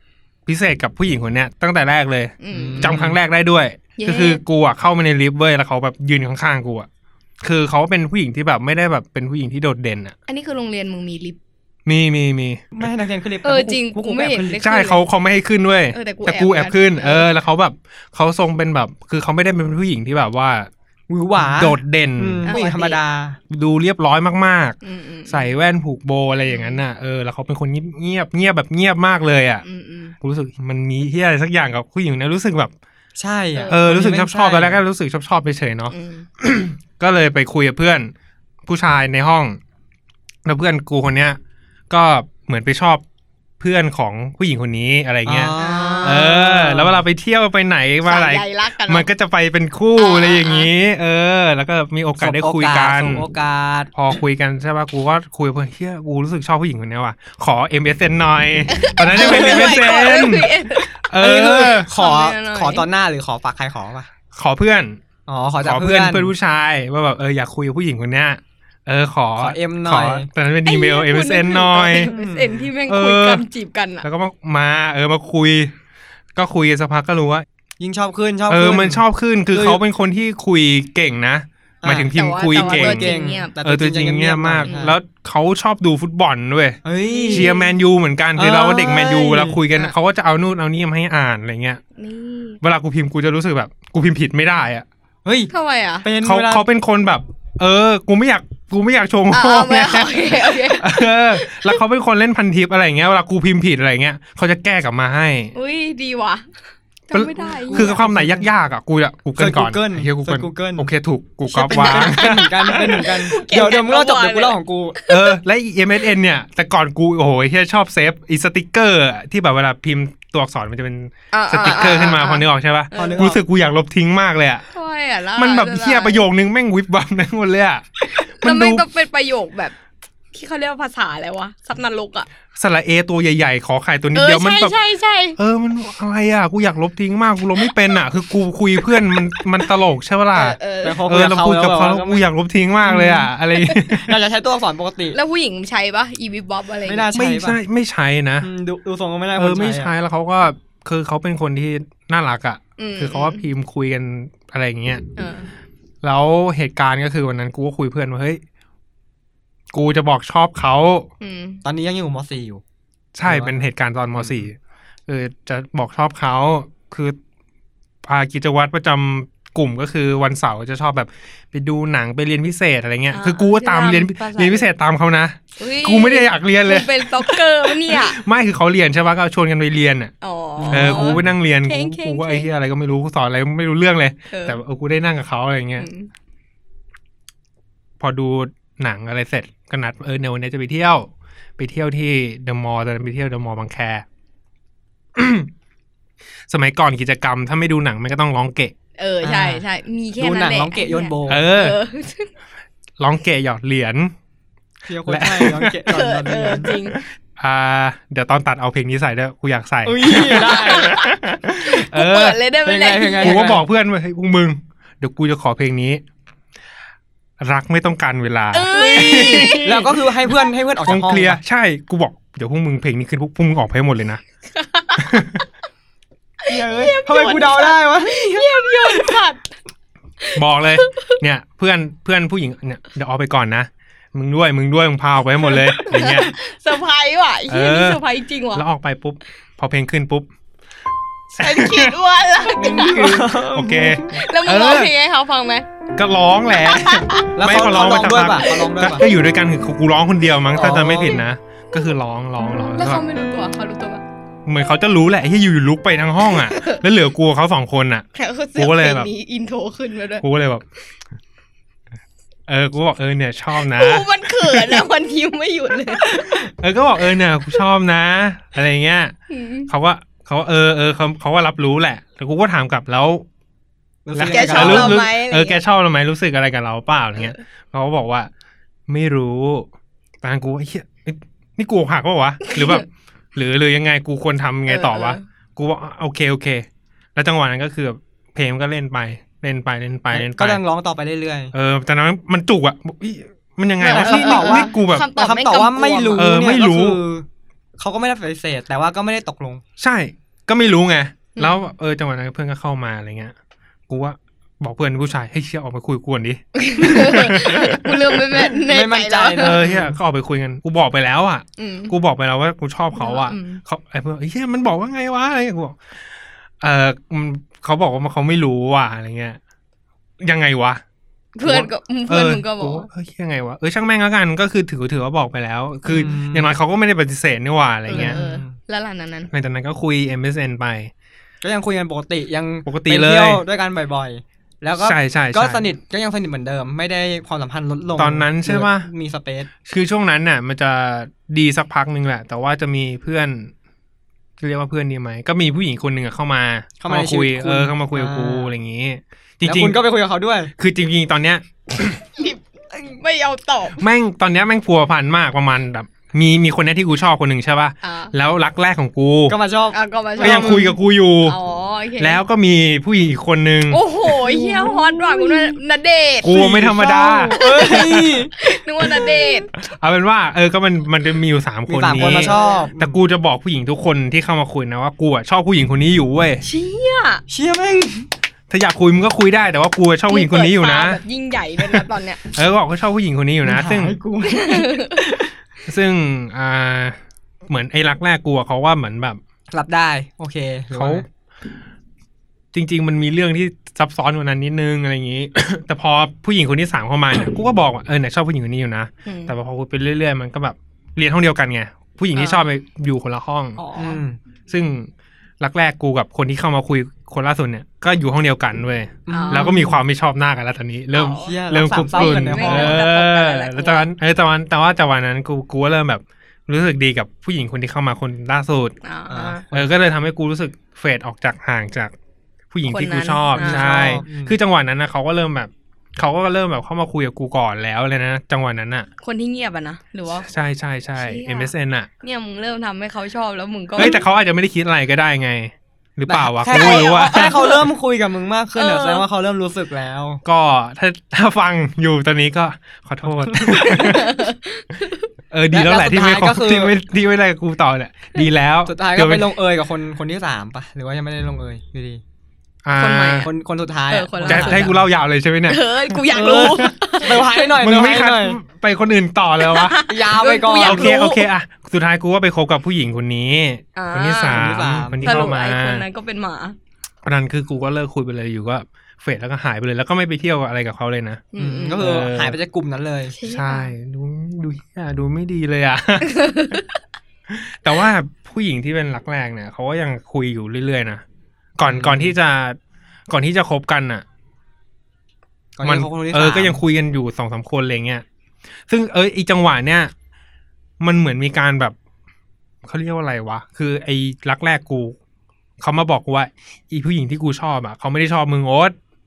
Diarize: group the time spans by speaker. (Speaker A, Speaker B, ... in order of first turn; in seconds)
Speaker A: 0.5-6.9, 7.4-10.2, 11.9-12.7, 14.6-20.7, 21.4-22.5, 23.5-29.6, 30.2-32.7, 33.7-38.1, 38.7-39.6, 40.5-41.4, 41.9-43.0, 43.6-53.2, 53.9-61.9, 64.3-65.0, 65.6-72.1, 72.9-73.4, 74.0-75.7, 76.3-77.5, 78.5-91.8, 92.6-94.9, 96.2-105.5, 107.1-112.8, 115.1-124.6, 125.4-128.9, 132.6-134.8, 135.4-144.2, 147.1-148.5, 149.4-155.0, 156.0-158.4, 159.7-161.1, 163.2-164.6, 165.1-167.2, 168.1-180.1, 180.7-185.9, 188.0-194.1, 195.2-195.5, 196.5-198.7, 201.3-201.8, 203.0-204.1, 205.1-205.8, 206.7-212.4, 213.2-216.0, 217.4-219.8, 220.9-224.2, 225.0-225.4, 230.4-236.3, 237.5-238.0, 238.5-240.3, 241.3-242.0, 242.6-244.9, 246.0-253.0, 254.5-259.1, 260.2-260.6, 262.5-264.9, 266.6-269.1, 269.7-273.2, 274.1-278.3, 278.9-279.7, 280.2-290.6, 291.5-295.1, 296.2-297.0, 299.8-303.3, 303.9-308.4, 309.4-315.8, 316.6-319.4, 320.2-320.8, 321.4-328.2, 329.3-330.9, 332.7-333.4, 334.8-335.6, 338.0-338.9, 339.6-343.5, 344.4-349.8, 350.6-352.0, 353.8-359.4, 360.2-361.4, 362.0-363.8, 366.2-368.2, 369.6-376.4, 378.5-381.0, 381.7-384.0, 385.7-389.2, 390.7-391.1, 392.5-403.6, 404.5-418.8, 419.5-421.9, 422.5-428.9, 430.1-431.9, 433.8-437.6, 440.2-444.3, 445.3-449.3, 452.6-453.3, 454.3-456.7, 457.5-459.8, 460.6-465.9, 467.1-472.4, 473.2-476.3, 477.3-481.0, 481.6-482.6, 483.1-484.1, 485.6-488.1, 488.7-489.9, 490.8-491.8, 492.6-494.9, 495.6-498.8
Speaker B: 2.4-3.0, 4.0-4.4, 10.3-11.4, 13.4-15.0, 15.9-17.3, 22.5-23.0, 24.8-25.5, 26.5-26.8, 29.6-30.1, 33.5-33.8, 35.9-36.3, 45.6-46.5, 48.0-49.1, 50.0-50.7, 58.7-62.9, 70.7-74.0, 82.1-83.5, 84.6-84.9, 87.0-87.7, 92.0-92.6, 95.5-96.1, 99.3-101.8, 105.5-106.4, 107.1-108.0, 111.5-115.4, 121.3-123.3, 124.7-126.2, 128.4-129.8, 130.3-132.3, 134.2-135.4, 140.3-141.0, 145.1-147.1, 152.8-153.5, 155.2-155.5, 161.2-161.6, 173.1-174.7, 175.6-178.2, 180.2-182.5, 184.3-184.6, 185.8-186.1, 199.0-202.3, 205.9-207.0, 210.1-213.4, 218.5-219.9, 224.6-225.2, 226.4-229.4, 230.2-231.2, 235.6-238.6, 241.4-243.3, 244.1-245.7, 246.7-247.3, 248.5-249.1, 252.6-254.0, 256.3-256.8, 258.1-260.2, 263.6-266.4, 269.3-269.7, 274.2-275.6, 282.4-282.8, 284.7-285.2, 293.9-296.3, 306.6-309.6, 311.6-311.9, 313.0-313.6, 321.4-322.9, 327.9-329.3, 352.2-353.8, 357.8-358.1, 359.7-360.7, 361.2-362.2, 363.7-366.5, 367.4-369.5, 371.9-372.7, 376.4-377.2, 380.1-382.2, 384.2-385.1, 399.1-399.3, 402.1-402.4, 403.6-404.0, 409.1-409.7, 410.9-413.9, 418.8-419.4, 422.7-424.0, 429.0-430.3, 431.0-434.1, 436.5-437.6, 438.6-439.1, 443.6-445.1, 452.8-453.3, 453.9-454.7, 455.5-457.5, 459.4-461.3, 463.8-464.4, 465.0-466.6, 471.3-471.9, 473.1-473.7, 476.1-476.6
Speaker C: 2.5-3.2, 12.7-14.6, 21.1-23.4, 33.2-34.8, 45.2-47.0, 52.2-53.9, 59.1-59.8, 61.2-64.1, 65.3-66.3, 69.4-70.3, 72.0-72.7, 77.8-79.8, 81.8-85.0, 86.8-87.5, 88.4-89.6, 95.2-95.5, 96.0-96.7, 107.4-108.5, 109.4-110.9, 111.5-115.0, 121.6-122.2, 122.9-123.4, 140.8-142.2, 142.8-143.3, 143.8-145.2, 146.9-147.6, 148.4-149.9, 161.6-162.6, 163.3-163.6, 164.2-164.5, 180.6-181.3, 199.2-199.6, 200.2-201.4, 204.9-206.7, 209.8-211.0, 212.7-213.6, 218.7-221.4, 226.5-229.2, 242.6-244.1, 247.3-249.1, 250.6-251.2, 274.1-275.0, 290.1-291.5, 293.8-297.3, 297.8-299.6, 308.7-310.0, 325.9-326.5, 327.9-328.5, 331.4-339.5, 346.8-348.5, 349.4-350.5, 359.3-360.7, 364.1-365.5, 366.3-368.3, 371.7-372.9, 377.3-378.1, 383.4-385.3, 389.5-391.1, 403.8-404.2, 409.1-409.8, 411.1-412.8, 419.1-419.7, 423.4-424.4, 436.1-440.2, 443.3-443.8, 445.5-446.8, 448.7-452.0, 453.2-454.8, 456.1-458.4, 459.9-461.0, 464.3-465.3, 471.4-473.1, 481.7-482.1, 485.6-486.6